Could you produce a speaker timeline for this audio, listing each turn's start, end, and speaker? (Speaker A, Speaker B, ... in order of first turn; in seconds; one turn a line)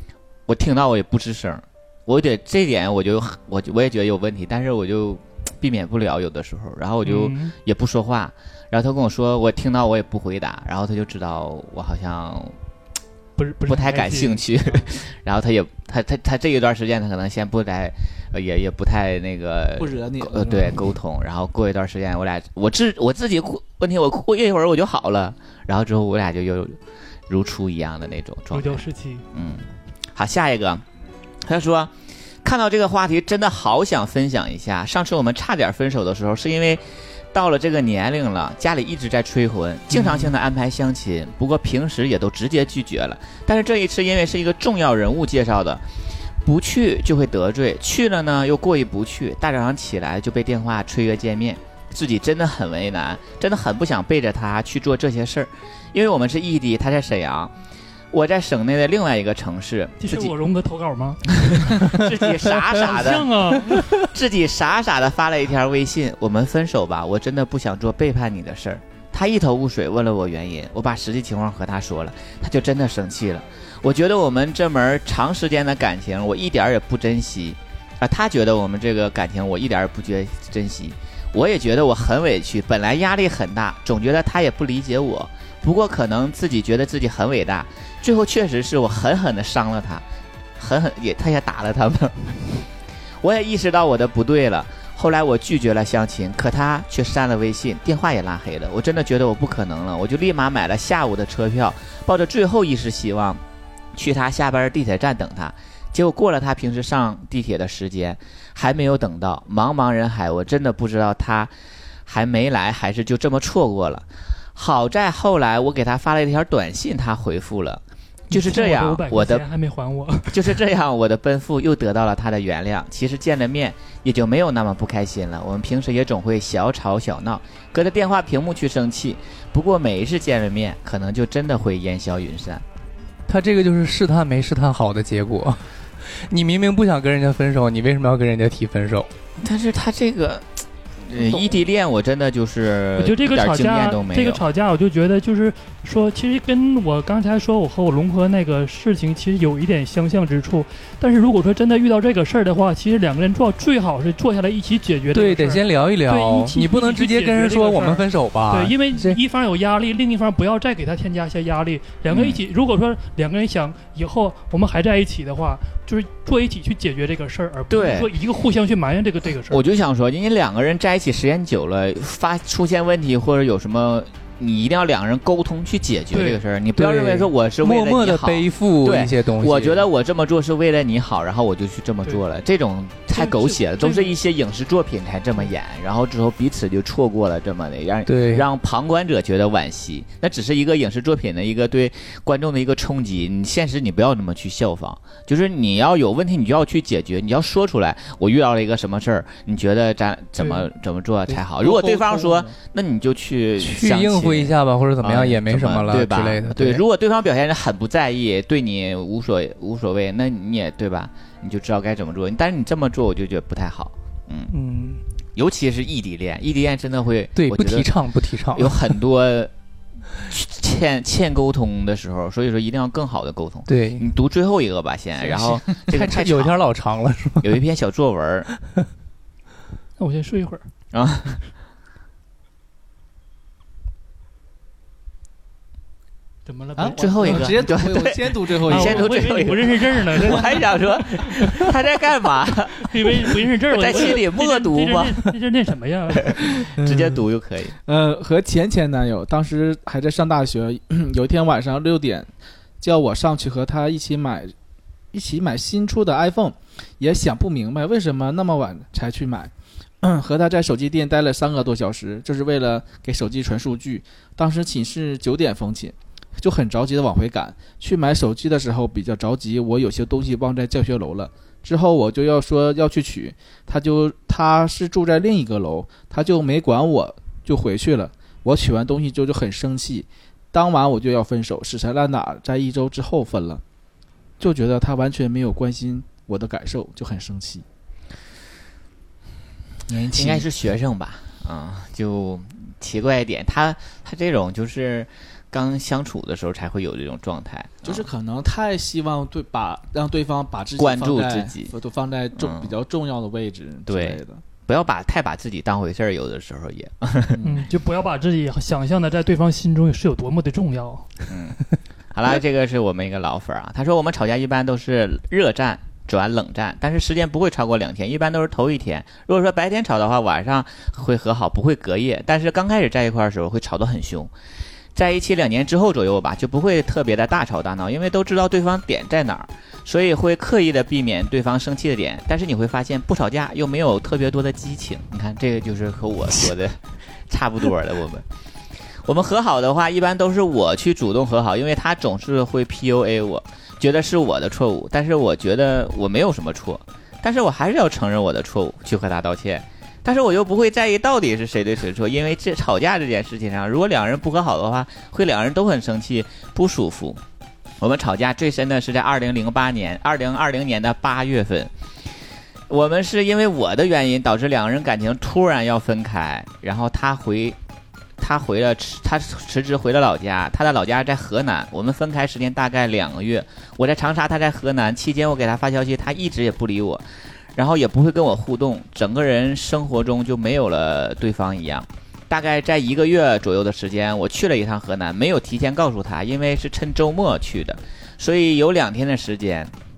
Speaker A: 0.5-12.6
Speaker B: 7.0-7.5
Speaker B: 13.4-14.8
Speaker A: 13.7-26.8
Speaker C: 19.8-20.8
Speaker A: 27.3-30.8
Speaker B: 28.5-29.3
Speaker A: 31.4-31.9
Speaker A: 32.4-36.8
Speaker A: 37.3-45.8
Speaker A: 46.4-57.5
Speaker A: 58.1-60.3
Speaker B: 60.0-61.3
Speaker A: 61.4-90.0
Speaker B: 62.7-63.8
Speaker A: 90.6-92.6
Speaker A: 93.2-103.4
Speaker A: 104.0-111.5
Speaker A: 112.1-119.4
Speaker B: 118.3-120.4
Speaker A: 120.3-132.6
Speaker D: 133.3-139.1
Speaker A: 139.4-140.4
Speaker A: 141.1-144.4
Speaker B: 143.0-169.6
Speaker D: 155.1-159.2
Speaker A: 162.1-162.4
Speaker A: 167.7-168.1
Speaker A: 169.5-214.5
Speaker B: 176.1-176.4
Speaker D: 176.8-179.9
Speaker B: 183.1-184.2
Speaker D: 188.1-188.5
Speaker C: 201.6-202.5
Speaker D: 203.6-206.8
Speaker D: 214.5-215.0
Speaker A: 215.4-217.9
Speaker D: 217.4-218.8
Speaker A: 218.5-219.5
Speaker A: 220.3-226.6
Speaker D: 223.7-224.1
Speaker D: 225.9-227.5
Speaker A: 227.4-228.5
Speaker B: 230.0-230.6
Speaker A: 230.9-231.4
Speaker B: 236.4-237.7
Speaker C: 236.8-239.3
Speaker A: 236.9-242.8
Speaker B: 238.7-241.6
Speaker B: 242.8-246.4
Speaker A: 243.7-245.2
Speaker A: 246.3-247.8
Speaker C: 246.7-247.2
Speaker C: 247.9-252.3
Speaker C: 252.8-254.5
Speaker C: 255.1-283.6
Speaker C: 284.4-287.6
Speaker C: 289.9-290.5
Speaker A: 290.1-298.1
Speaker C: 297.9-304.4
Speaker A: 300.8-301.7
Speaker A: 302.4-302.8
Speaker A: 303.9-307.4
Speaker C: 307.3-307.6
Speaker B: 307.4-311.1
Speaker A: 311.3-311.6
Speaker A: 312.1-324.3
Speaker A: 324.9-336.8
Speaker A: 337.3-338.2
Speaker A: 339.1-357.2
Speaker A: 357.8-361.7
Speaker A: 362.7-367.6
Speaker A: 368.2-377.0
Speaker A: 377.6-389.7